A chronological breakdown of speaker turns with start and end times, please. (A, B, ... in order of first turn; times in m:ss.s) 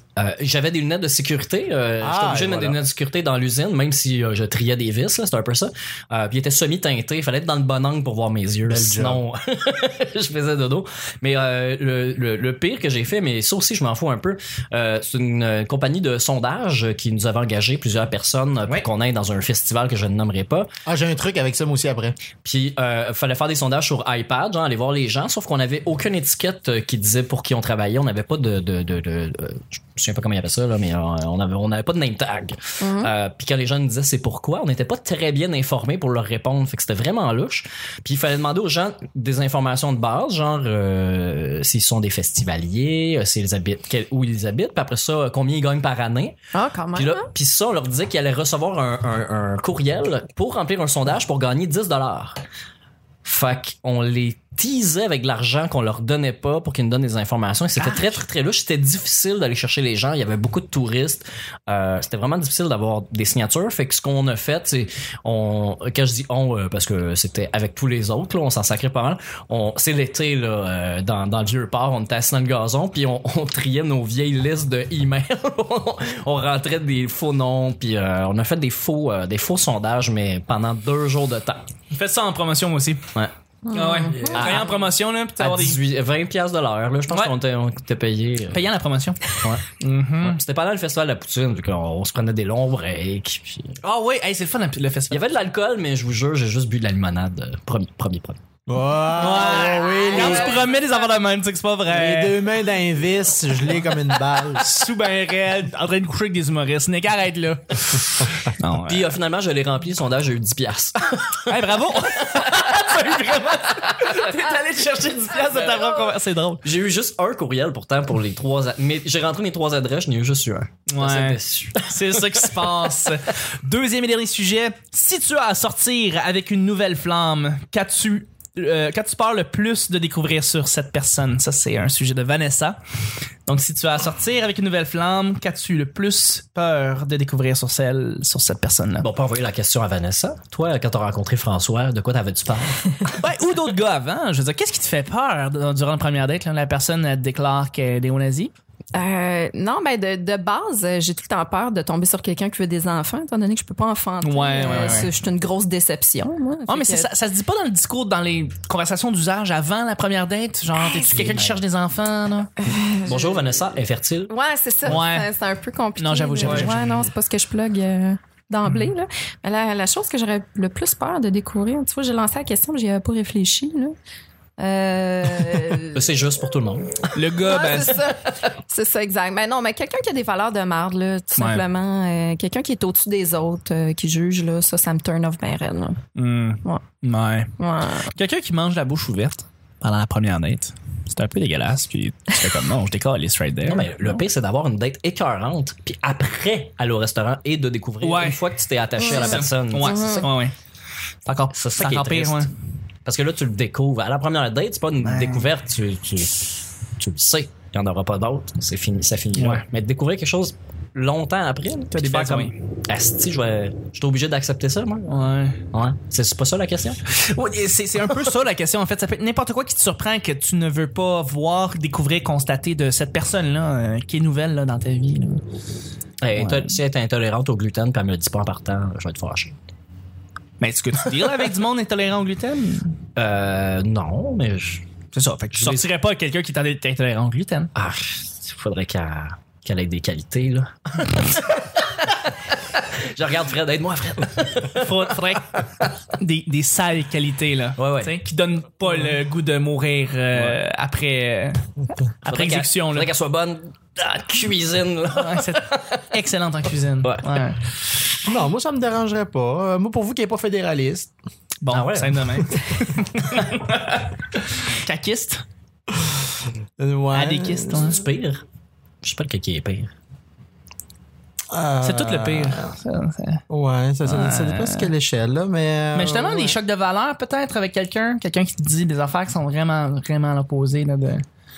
0:00.2-0:20.7 A
0:02.0-0:02.8 B
0:08.6-0:09.2 B
0:20.8-0:22.2 B
0:22.4-0:46.4 A
0:32.8-0:33.1 C
0:46.5-0:47.3 C
0:46.9-0:52.4 A
0:53.2-1:21.6 A
0:57.8-0:58.2 D
1:21.9-1:23.0 D
1:23.6-1:24.4 C
1:23.7-1:25.8 D
1:24.1-1:24.8 A
1:25.4-1:28.6 A
1:28.5-1:30.4 D
1:29.3-1:29.6 A
1:30.2-1:33.8 A
1:33.8-1:35.2 D
1:35.1-1:38.4 A
1:38.7-1:40.6 B
1:39.1-1:42.4 D
1:39.2-1:40.9 C
1:41.9-1:44.8 B
1:44.5-1:49.1 D
1:48.8-1:51.6 A
1:51.4-1:56.6 D
1:52.1-1:54.2 A
1:56.6-2:03.1 A
2:00.9-2:12.8 D
2:13.4-2:19.1 D
2:19.0-2:23.1 A
2:23.2-2:28.5 D
2:28.9-2:37.1 C
2:34.2-2:35.1 D
2:36.7-2:42.5 D
2:41.1-2:41.6 A
2:42.6-2:43.5 C
2:43.0-2:44.3 A
2:44.3-2:53.9 C
2:44.8-2:45.3 D
2:46.0-2:47.0 D
2:46.4-2:46.8 A
2:54.6-2:56.0 C
2:55.8-2:57.1 A
2:57.1-2:58.1 D
2:57.4-3:06.0 C
3:01.4-3:01.6 D
3:06.2-3:14.2 D
3:07.6-3:08.1 C
3:13.6-3:20.3 A
3:18.0-3:18.4 D
3:19.0-3:20.3 C
3:19.0-3:20.5 D
3:21.2-3:22.5 D
3:21.5-3:22.5 A
3:23.0-3:35.2 A
3:25.0-3:25.5 D
3:29.4-3:29.6 D
3:31.9-3:32.5 D
3:35.1-3:35.6 D
3:35.7-3:37.0 A
3:37.1-3:45.4 D
3:46.2-3:49.5 A
3:46.4-3:46.8 D
3:50.6-3:53.0 D
3:53.2-3:54.8 A
3:55.1-3:57.7 D
3:55.5-3:55.8 A
3:57.7-4:02.3 A
4:02.9-4:05.1 A
4:04.6-4:11.6 D
4:07.8-4:08.1 A
4:10.3-4:10.6 A
4:12.2-4:13.1 D
4:12.2-4:16.0 A
4:15.1-4:17.6 D
4:17.0-4:17.5 A
4:18.2-4:21.1 B
4:21.6-4:25.4 D
4:21.7-4:22.6 A
4:25.9-4:27.9 B
4:27.1-4:28.0 D
4:27.7-4:28.4 A
4:29.0-4:29.9 A
4:31.5-4:32.7 B
4:31.8-4:33.4 D
4:33.5-4:36.6 B
4:34.0-4:34.9 D
4:35.9-4:41.2 D